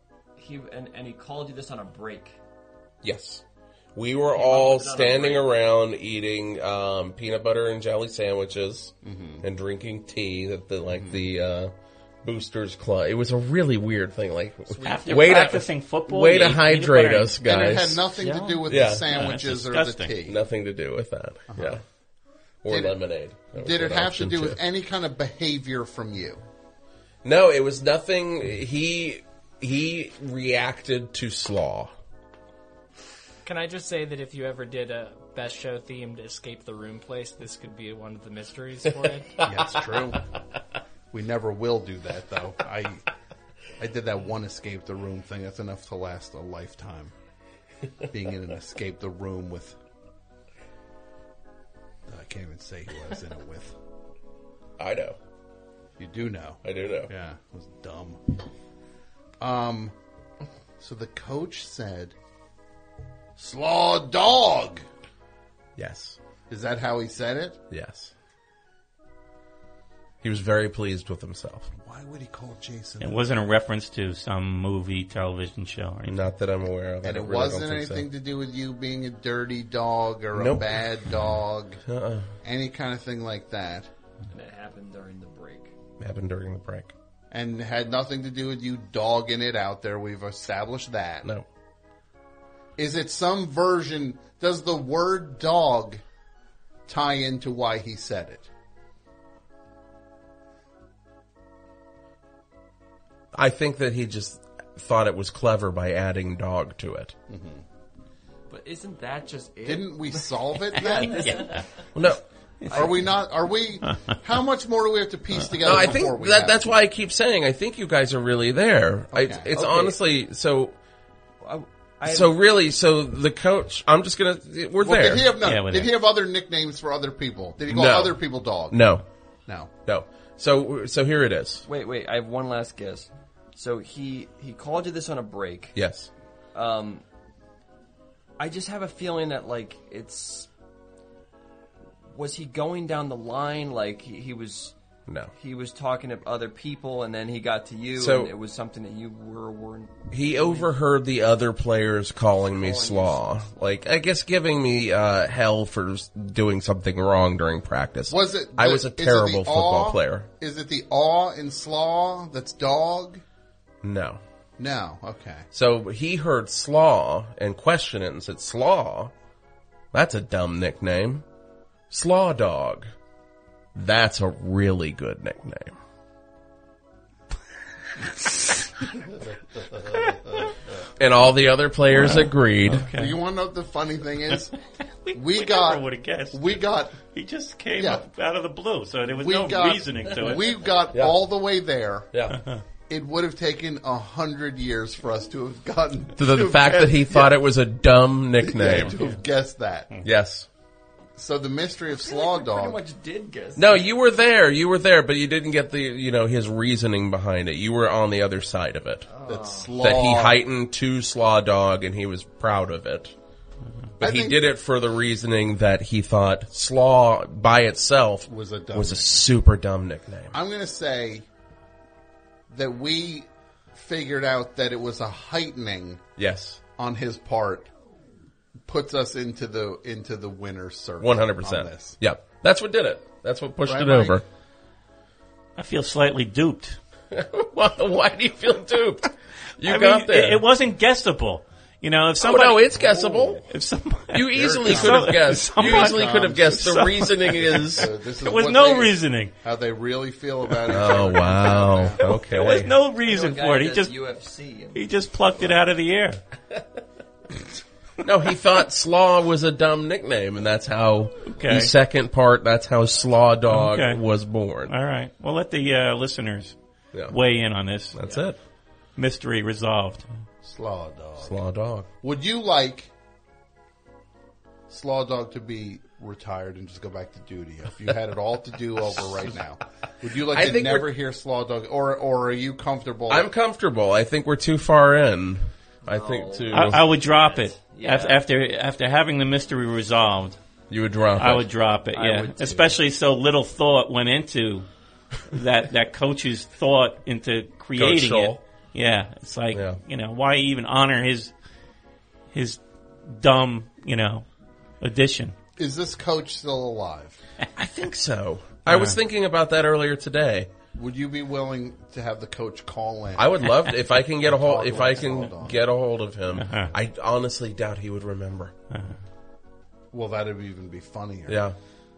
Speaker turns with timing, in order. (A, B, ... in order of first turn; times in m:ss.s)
0:00.4-0:02.4 A
0:03.0-0:03.4 B
0:03.9-0:18.1 B
0:04.3-0:05.5 A
0:09.0-0:09.4 C
0:10.9-0:11.2 C
0:14.7-0:15.5 A
0:14.8-0:17.4 D
0:17.4-0:20.4 C
0:18.2-0:20.1 D
0:18.7-0:19.1 B
0:20.2-0:21.8 B
0:21.5-0:21.8 C
0:22.6-0:24.6 B
0:22.7-0:23.0 C
0:23.5-0:26.4 C
0:27.2-0:31.9 B
0:33.4-0:39.4 E
0:39.4-0:40.2 C
0:41.1-0:43.0 C
0:43.8-0:47.1 C
0:48.1-0:49.8 C
0:52.1-0:53.7 C
0:54.8-0:55.2 B
0:56.0-0:58.2 C
0:56.6-0:57.1 B
0:59.4-0:59.9 C
1:00.8-1:02.1 C
1:03.4-1:04.8 C
1:05.8-1:06.2 B
1:06.5-1:07.6 C
1:07.7-1:08.1 B
1:10.2-1:11.7 B
1:11.7-1:13.3 C
1:13.0-1:16.2 D
1:16.0-1:18.1 B
1:17.0-1:21.8 C
1:20.3-1:21.1 B
1:21.8-1:22.3 B
1:22.4-1:23.9 C
1:24.3-1:25.7 A
1:26.0-1:26.9 B
1:27.3-1:31.3 C
1:32.8-1:36.0 C
1:36.9-1:38.5 C
1:43.3-1:47.1 B
1:47.3-1:47.6 C
1:48.5-1:51.7 A
1:49.6-1:51.6 C
1:51.0-1:51.6 D
1:51.9-1:52.2 B
1:52.7-1:56.7 C
1:55.6-2:00.7 B
1:59.1-1:59.5 C
1:59.5-2:00.0 A
2:01.4-2:02.3 A
2:02.0-2:05.3 B
2:04.8-2:08.9 C
2:05.4-2:05.9 D
2:07.6-2:09.0 B
2:09.5-2:09.7 C
2:09.8-2:11.6 B
2:11.6-2:15.8 A
2:15.7-2:16.1 B
2:16.5-2:17.0 A
2:18.4-2:20.5 A
2:22.1-2:24.7 A
2:25.1-2:25.3 B
2:25.3-2:30.7 A
2:28.0-2:28.3 B
2:30.1-2:40.3 B
2:32.5-2:33.8 A
2:38.1-2:43.2 C
2:43.8-2:44.2 B
2:44.6-2:45.5 C
2:45.5-2:49.1 B
2:49.9-2:51.2 B
2:51.9-2:52.9 B
2:53.7-2:55.7 B
2:59.9-3:00.5 C
3:01.0-3:02.9 B
3:02.0-3:03.2 D
3:02.8-3:04.5 C
3:05.0-3:10.6 D
3:05.1-3:07.0 C
3:07.8-3:08.0 C
3:09.1-3:12.2 C
3:10.9-3:11.2 B
3:12.1-3:12.4 B
3:12.9-3:17.4 C
3:16.2-3:19.0 B
3:18.4-3:20.0 C
3:20.0-3:20.5 B
3:21.2-3:22.8 C
3:22.0-3:23.9 A
3:23.6-3:29.1 B
3:29.1-3:29.7 A
3:29.2-3:30.4 C
3:29.8-3:33.1 B
3:34.0-3:40.3 B
3:34.0-3:34.5 C
3:38.3-3:39.3 C
3:40.3-3:41.2 C
3:42.5-3:46.0 C
3:46.2-3:46.6 B
3:46.8-3:47.7 C
3:48.6-3:52.0 C
3:51.0-3:54.2 B
3:53.6-3:54.2 C
3:55.6-3:56.8 D
3:57.1-4:00.4 B
3:59.6-4:02.7 D
4:02.2-4:03.5 B
4:02.7-4:03.4 C
4:03.5-4:09.3 D
4:04.1-4:07.9 B
4:04.3-4:06.8 C
4:07.4-4:12.3 C
4:10.7-4:12.7 B
4:12.3-4:13.9 D
4:13.0-4:15.6 A
4:14.7-4:16.2 D
4:18.0-4:24.7 B
4:21.3-4:21.7 D
4:23.5-4:24.0 D
4:24.7-4:26.6 D
4:27.1-4:28.2 D
4:27.9-4:28.4 B
4:29.0-4:30.0 D
4:30.4-4:31.4 C
4:31.2-4:31.9 B
4:32.0-4:32.9 C
4:34.7-4:43.3 C
4:40.3-4:40.9 B
4:43.1-4:46.9 B
4:45.8-4:48.2 A
4:46.5-4:50.4 D
4:50.7-4:51.5 B
4:51.2-4:54.7 D
4:51.9-4:52.8 A
4:55.3-5:01.3 D
4:57.8-4:58.4 B
4:59.5-4:59.8 B
5:02.3-5:04.2 D
5:04.8-5:05.3 D
5:05.6-5:07.2 C
5:07.6-5:10.5 B
5:08.7-5:08.9 D
5:10.7-5:15.7 C
5:13.2-5:18.5 B
5:16.4-5:16.7 D
5:19.9-5:21.4 C
5:21.3-5:21.6 B